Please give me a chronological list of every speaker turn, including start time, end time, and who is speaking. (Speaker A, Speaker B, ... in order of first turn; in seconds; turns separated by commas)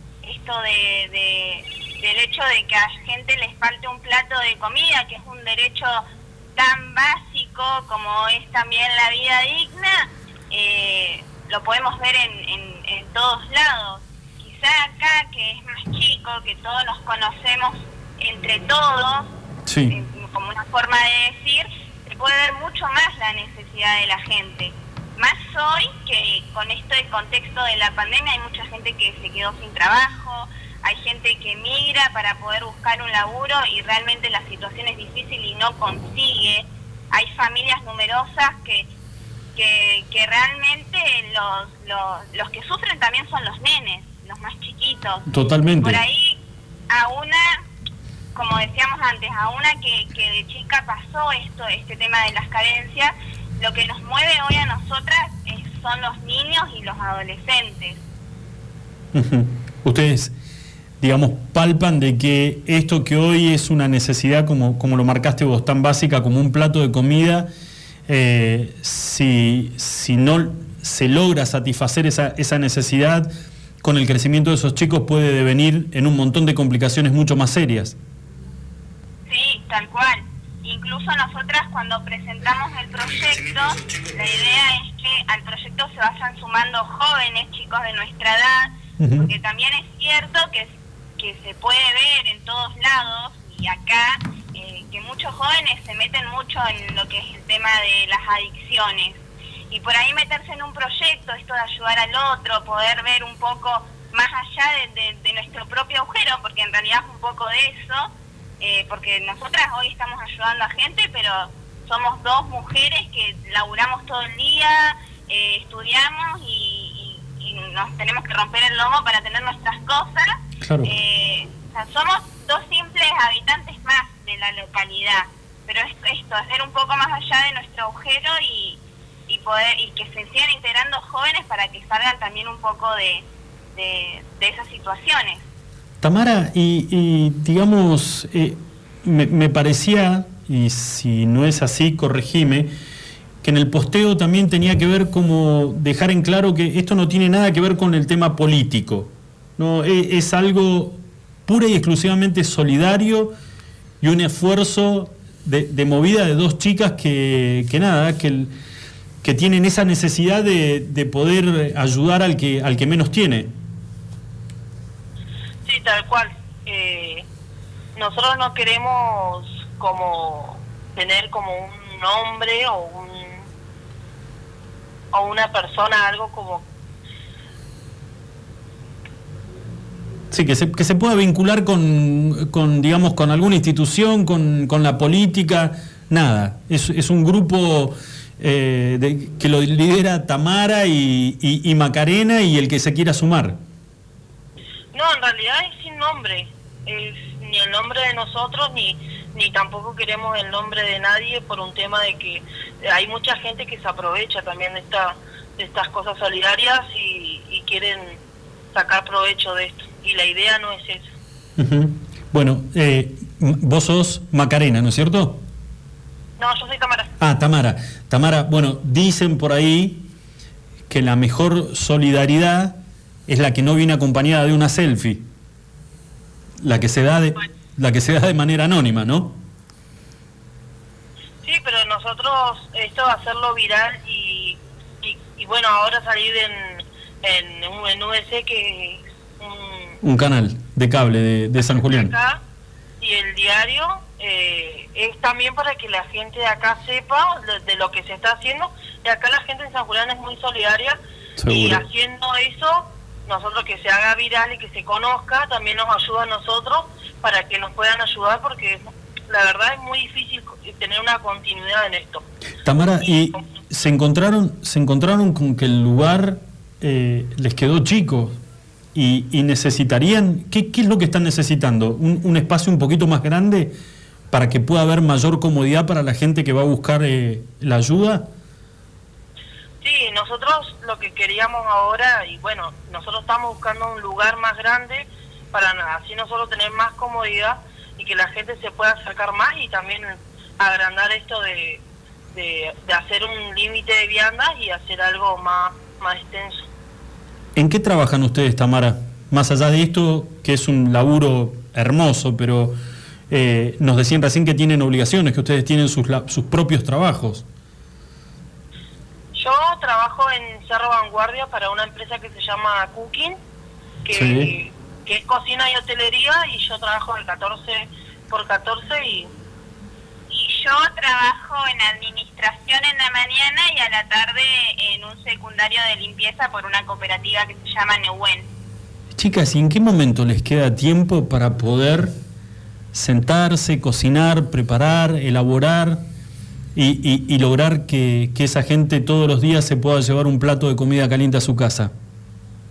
Speaker A: 0.2-6.0, Speaker A: 6.6-19.3, Speaker B: 19.7-19.9, Speaker A: 19.9-38.9, Speaker A: 39.6-45.2, Speaker B: 45.3-46.0, Speaker A: 45.8-46.4, Speaker A: 46.9-47.6, Speaker A: 48.4-58.0, Speaker B: 59.1-60.3, Speaker B: 61.0-67.5, Speaker B: 68.1-73.3, Speaker B: 73.8-78.0, Speaker A: 79.3-133.2, Speaker B: 89.0-89.3, Speaker B: 120.6-120.9, Speaker A: 133.8-135.4, Speaker B: 136.0-142.7, Speaker B: 143.4-153.3, Speaker B: 154.0-158.5, Speaker B: 159.2-163.5, Speaker C: 165.7-167.2, Speaker C: 168.0-173.4, Speaker C: 175.1-176.7, Speaker B: 180.3-193.6, Speaker C: 194.9-208.2, Speaker C: 208.7-211.1, Speaker B: 211.6-215.4, Speaker C: 216.4-217.1, Speaker B: 217.2-220.1, Speaker B: 220.9-225.2, Speaker B: 226.6-229.4, Speaker C: 231.4-240.0, Speaker B: 240.0-242.1, Speaker C: 241.6-242.4, Speaker C: 243.0-262.2, Speaker B: 251.4-251.8, Speaker B: 262.6-268.4, Speaker B: 268.9-273.7, Speaker B: 274.3-278.3, Speaker C: 279.8-291.8, Speaker C: 292.3-296.7, Speaker B: 297.6-302.8, Speaker B: 303.3-307.4, Speaker C: 309.3-313.4, Speaker C: 314.1-319.3, Speaker B: 314.1-314.5, Speaker A: 320.3-328.5, Speaker B: 329.1-332.1, Speaker B: 332.9-336.1, Speaker B: 336.8-341.9